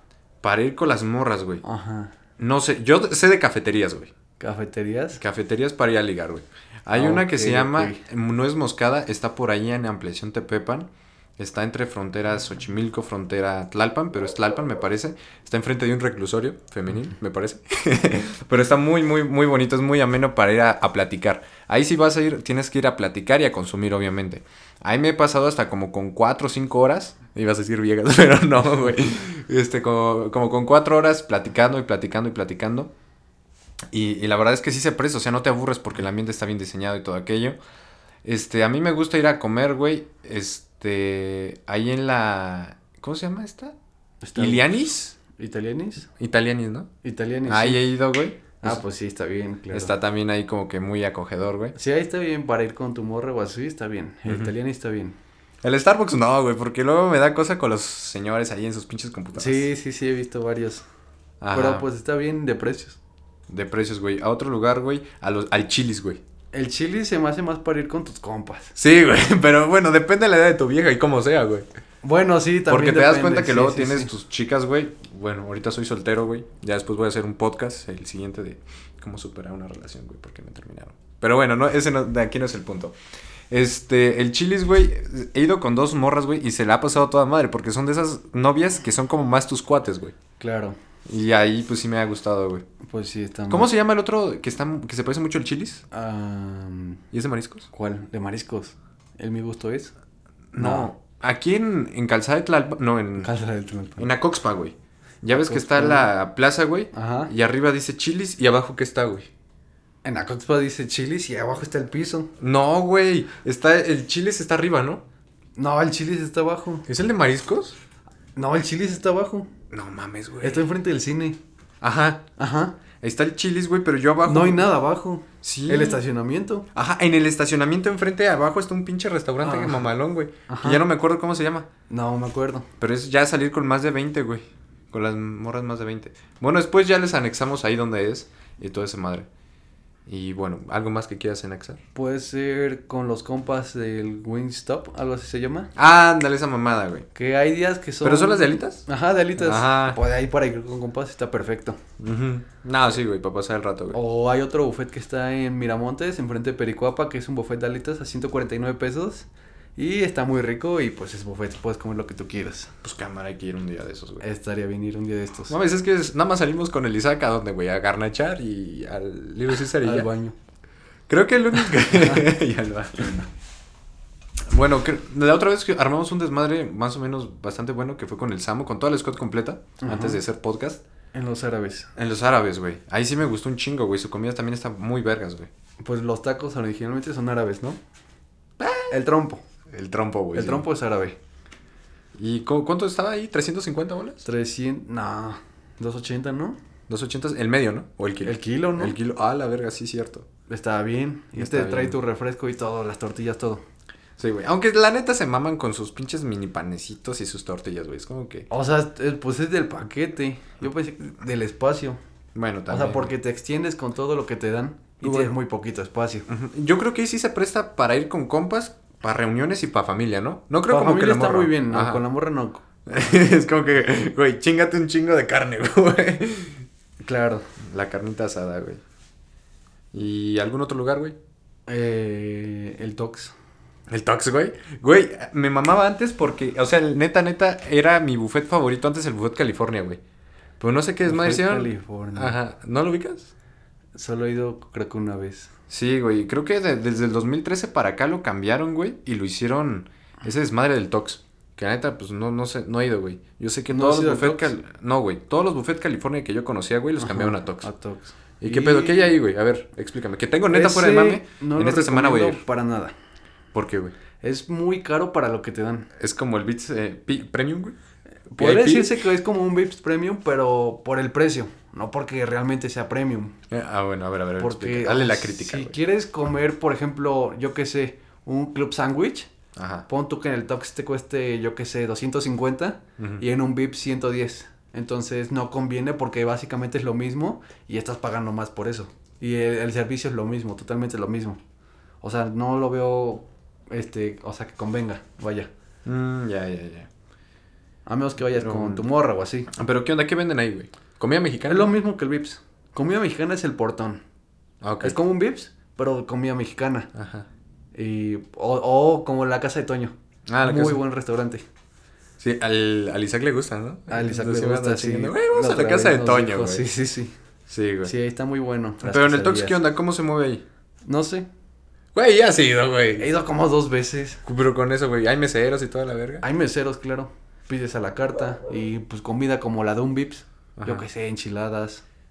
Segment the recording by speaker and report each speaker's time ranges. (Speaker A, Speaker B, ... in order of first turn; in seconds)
Speaker A: 0.4-1.6, 2.4-4.1, 5.2-32.9, 33.9-37.6, 38.2-43.7, 44.4-45.2, 46.2-46.9, 47.5-48.8, 49.7-51.8, 54.3-54.5, 55.6-59.7, 61.4-61.9, 63.5-66.2, 68.8-71.7, 72.7-83.0, 83.5-90.2, 91.1-92.6, 93.5-95.8, 97.1-97.7, 100.5-103.3, 104.0-109.3, 112.4-115.0, 116.9-117.8, 119.7-120.8, 121.8-122.2, 123.0-124.7, 125.4-126.0, 126.7-131.7, 132.8-139.3, 140.1-141.8, 145.8-147.1, 148.0-148.8, 149.4-150.0, 152.0-154.0, 162.8-164.2, 165.5-170.1, 171.1-173.2, 174.5-180.8, 182.0-185.5, 188.6-188.9, 189.7-190.7, 192.2-194.2, 196.9-200.3, 201.3-202.0, 204.2-208.5, 212.3-213.1, 215.0-215.3, 216.3-222.0, 222.9-226.7, 227.7-228.8, 229.9-231.2, 233.9-240.0, 240.6-243.3, 245.7-257.7, 258.4-262.4, 263.5-263.9, 266.0-267.8, 268.4-268.9, 273.5-275.8, 279.6-279.9, 283.0-283.2, 295.9-296.9, 298.3-298.9, 299.5-301.7, 304.6-305.0, 306.9-307.3, 310.3-310.8, 312.2-316.7, 317.5-317.9, 318.8-320.4, 321.9-323.1, 324.2-326.2, 330.6-330.9
Speaker B: 1.6-2.1, 4.4-5.2, 7.0-8.0, 44.2-44.7, 45.4-46.1, 47.0-47.8, 48.6-49.9, 51.8-55.2, 59.4-60.8, 61.5-63.0, 66.5-68.8, 72.0-74.1, 90.4-90.8, 92.9-93.7, 95.9-97.0, 97.7-99.9, 100.6-100.9, 103.2-104.1, 105.3-106.1, 106.9-107.3, 110.0-112.3, 115.6-116.8, 118.4-119.5, 120.4-121.4, 122.4-122.8, 124.2-126.7, 129.4-129.9, 130.5-130.8, 131.9-132.7, 141.9-145.7, 147.1-151.8, 153.9-162.7, 164.2-165.6, 169.8-170.3, 171.9-172.3, 179.8-180.2, 181.1-181.9, 185.8-187.8, 188.9-189.4, 190.3-191.2, 194.2-196.6, 198.2-199.0, 200.5-203.6, 208.5-212.0, 212.7-216.3, 220.7-222.6, 227.0-227.5, 231.7-233.3, 241.1-242.4, 243.9-245.5, 253.7-254.5, 257.0-259.1, 260.5-262.9, 264.2-265.9, 268.3-273.4, 274.4-279.3, 279.9-291.4, 292.0-295.5, 297.9-299.5, 301.5-304.0, 304.8-306.9, 307.7-311.4, 313.9-317.1, 317.8-319.6, 320.9-321.3, 323.0-324.2, 326.2-331.8